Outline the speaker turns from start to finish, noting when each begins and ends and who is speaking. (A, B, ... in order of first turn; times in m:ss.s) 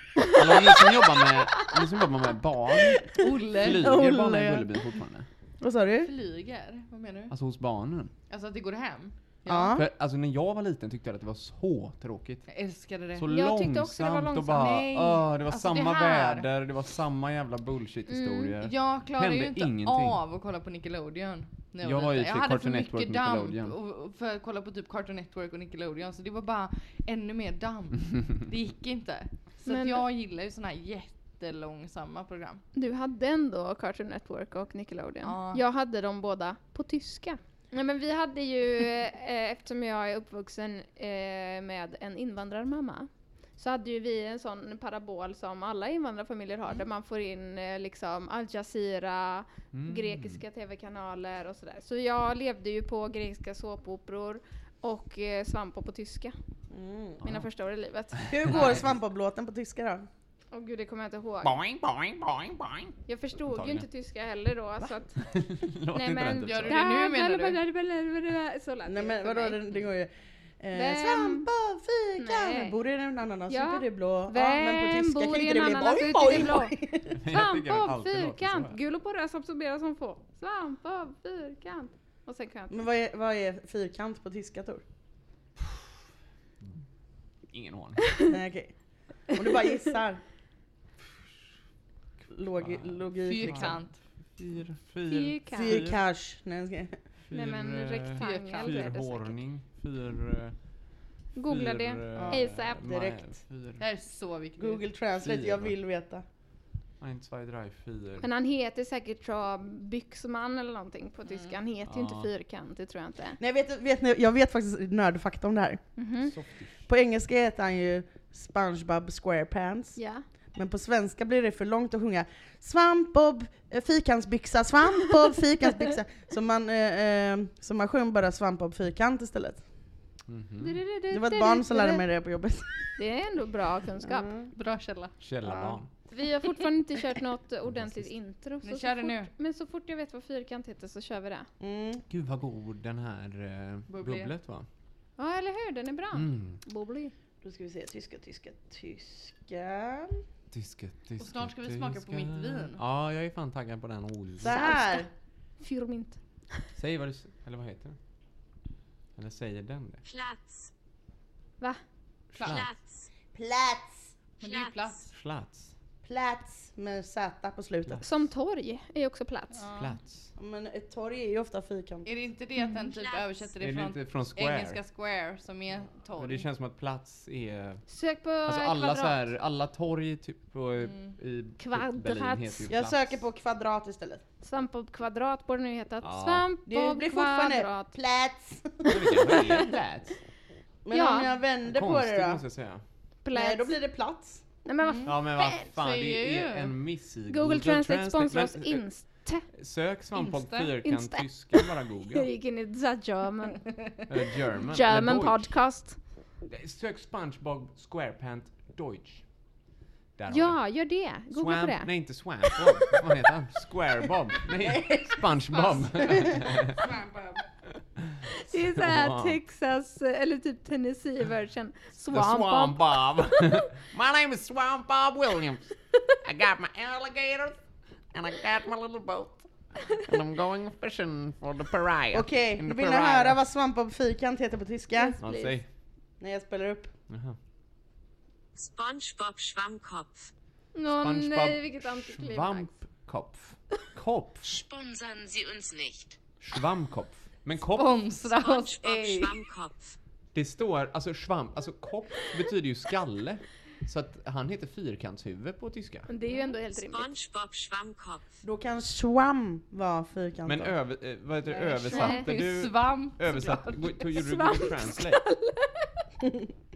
0:00.3-0:05.3 A
0:03.2-0:03.8 B
0:03.6-0:04.8 C
0:05.6-0:06.1 C
0:06.0-0:07.3 B
0:07.3-0:08.1 A
0:08.3-0:09.8 B
0:09.5-0:09.9 C
0:09.7-0:12.4 A
0:12.5-0:13.3 B
0:13.1-0:20.2 A
0:13.3-0:14.8 D
0:14.6-0:16.5 B
0:18.1-0:18.5 D
0:18.6-0:32.6 B
0:21.8-0:23.7 A
0:29.6-0:30.0 D
0:32.7-0:56.3 D
0:35.2-0:35.6 B
0:49.7-0:50.4 A
0:56.7-0:57.2 C
0:57.2-0:57.5 A
0:57.2-0:58.7 D
0:58.2-0:58.9 A
0:58.3-1:00.1 C
1:00.5-1:01.6 D
1:01.4-1:02.9 A
1:03.1-1:09.6 D
1:03.5-1:03.9 A
1:05.2-1:06.8 A
1:06.4-1:07.6 B
1:08.8-1:17.2 C
1:10.7-1:11.5 D
1:12.2-1:12.8 D
1:13.5-1:16.8 D
1:17.1-1:18.8 A
1:17.3-1:22.8 D
1:22.7-1:24.8 C
1:27.5-1:28.2 A
1:28.3-1:28.7 C
1:29.3-1:30.2 C
1:32.3-1:33.8 C
1:32.6-1:33.8 A
1:33.2-1:34.0 B
1:34.4-1:36.0 A
1:35.1-1:35.8 D
1:35.5-1:36.9 C
1:37.3-1:43.8 A
1:37.3-1:39.4 D
1:38.2-1:38.9 B
1:41.3-1:42.8 D
1:42.1-1:43.3 C
1:43.8-1:44.8 B
1:44.6-1:46.2 C
1:45.2-1:45.7 A
1:47.0-1:48.3 A
1:48.2-1:53.4 D
1:51.3-1:51.6 B
1:51.8-1:52.3 A
1:53.4-1:55.8 C
1:56.0-1:56.3 D
1:56.2-1:56.8 A
1:56.8-2:00.0 C
2:00.0-2:00.2 D
2:00.5-2:09.6 C
2:10.3-2:10.8 A
2:10.6-2:12.0 D
2:11.1-2:12.7 C
2:13.0-2:14.3 D
2:14.0-2:14.5 C
2:14.5-2:15.2 B
2:15.2-2:15.9 A
2:16.1-2:21.5 D
2:17.7-2:18.1 A
2:18.6-2:19.3 B
2:21.6-2:22.0 C
2:22.1-2:24.7 A
2:23.9-2:24.3 B
2:25.2-2:27.1 D
2:26.1-2:26.6 A
2:27.4-2:30.2 C
2:30.5-2:34.7 A
2:31.2-2:32.8 B
2:34.4-2:35.1 C
2:34.5-2:35.1 D
2:35.6-2:36.2 D
2:36.8-2:38.0 A
2:39.1-2:40.0 A
2:40.0-2:40.7 E
2:42.3-2:42.8 A
2:42.4-2:42.6 B
2:42.4-2:43.1 E
2:43.3-2:44.1 C
2:44.4-2:45.1 B
2:44.4-2:45.0 E
2:45.1-2:45.7 A
2:46.0-2:48.2 C
2:48.0-2:49.6 D
2:49.5-2:50.0 B
2:49.7-2:50.3 A
2:50.4-2:52.1 C
2:52.0-2:56.4 B
2:52.6-2:52.9 D
2:53.6-2:54.8 A
2:56.2-2:57.8 A
2:57.9-2:59.2 D
2:58.4-3:03.2 A
3:00.8-3:01.1 B
3:01.6-3:02.7 D
3:02.7-3:04.2 C
3:04.4-3:07.9 D
3:06.0-3:06.5 A
3:06.6-3:09.3 C
3:08.8-3:10.2 A
3:10.8-3:12.4 C
3:10.9-3:11.3 D
3:11.7-3:12.8 A
3:13.2-3:13.7 D
3:13.3-3:14.4 C
3:14.6-3:15.7 D
3:15.0-3:18.8 A
3:15.7-3:16.7 B
3:17.3-3:19.4 D
3:19.5-3:22.3 A
3:20.2-3:20.7 B
3:20.5-3:23.7 D
3:24.1-3:25.6 A
3:24.7-3:26.0 D
3:26.4-3:29.3 A
3:30.2-3:30.8 A
3:30.3-3:31.9 D
3:31.3-3:36.9 A
3:34.6-3:35.2 C
3:35.5-3:37.4 B
3:38.0-3:39.4 A
3:38.3-3:43.6 D
3:42.1-3:47.6 A
3:48.1-3:53.4 A
3:52.1-3:55.2 C
3:54.9-3:55.6 D
3:55.2-3:55.6 A
3:56.2-3:56.9 C
3:57.1-3:57.4 A
3:58.6-4:00.3 E
4:00.7-4:02.7 D
4:00.8-4:04.6 A
4:04.4-4:06.2 E
4:06.4-4:08.1 A
4:07.7-4:09.4 B
4:08.4-4:10.0 E
4:10.3-4:16.1 A
4:16.1-4:17.1 D
4:16.7-4:18.3 E
4:18.4-4:20.7 C
4:20.4-4:25.2 A
4:21.5-4:23.8 B
4:21.9-4:22.3 D
4:23.8-4:26.0 D
4:26.2-4:26.5 C